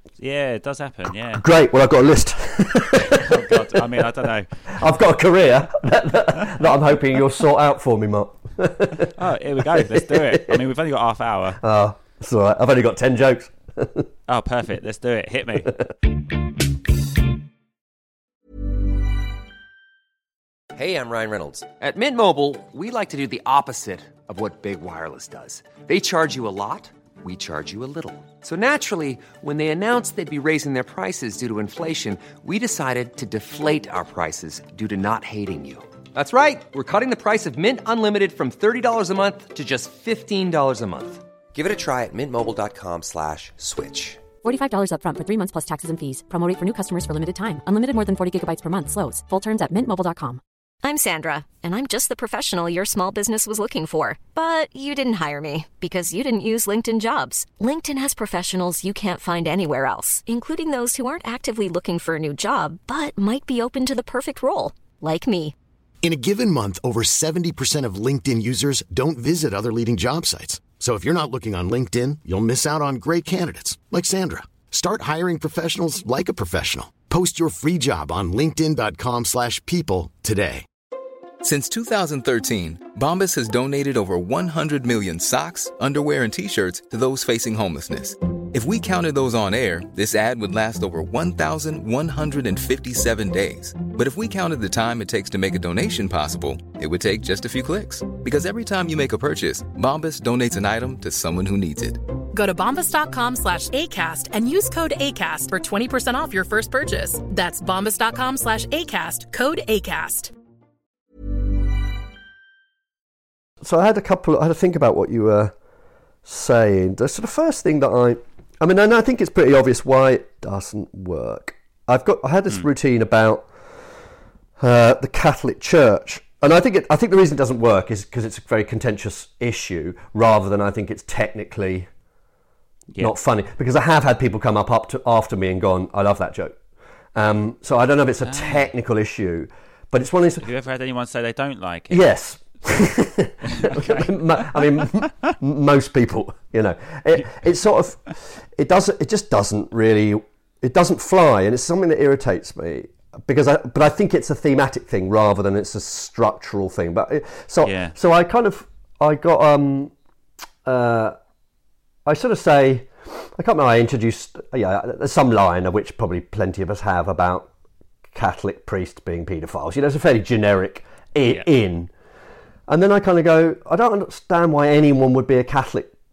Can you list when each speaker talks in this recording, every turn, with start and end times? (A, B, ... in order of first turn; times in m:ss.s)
0:00.2-0:01.4 A
0:01.3-0:04.0 B
0:03.1-0:04.8 A
0:04.7-0:09.1 B
0:09.1-0:11.6 A
0:09.7-0:10.6 B
0:11.6-0:14.0 B
0:14.3-0:15.8 A
0:20.7-0:44.2 C
0:44.4-0:50.4 D
0:50.8-1:05.5 E
1:06.0-1:20.6 F
1:21.4-1:42.0 G
1:42.3-1:50.3 H
1:53.6-1:55.5 B
1:56.2-2:03.5 B
2:04.6-2:11.9 B
2:13.0-2:16.6 B
2:17.1-2:20.4 B
2:18.2-2:18.7 A
2:20.4-2:22.1 A
2:21.9-2:39.9 B
2:23.4-2:25.1 A
2:37.6-2:38.0 A
2:40.6-2:41.2 B
2:42.0-2:47.5 B
2:48.1-2:51.9 B
2:52.7-2:55.9 B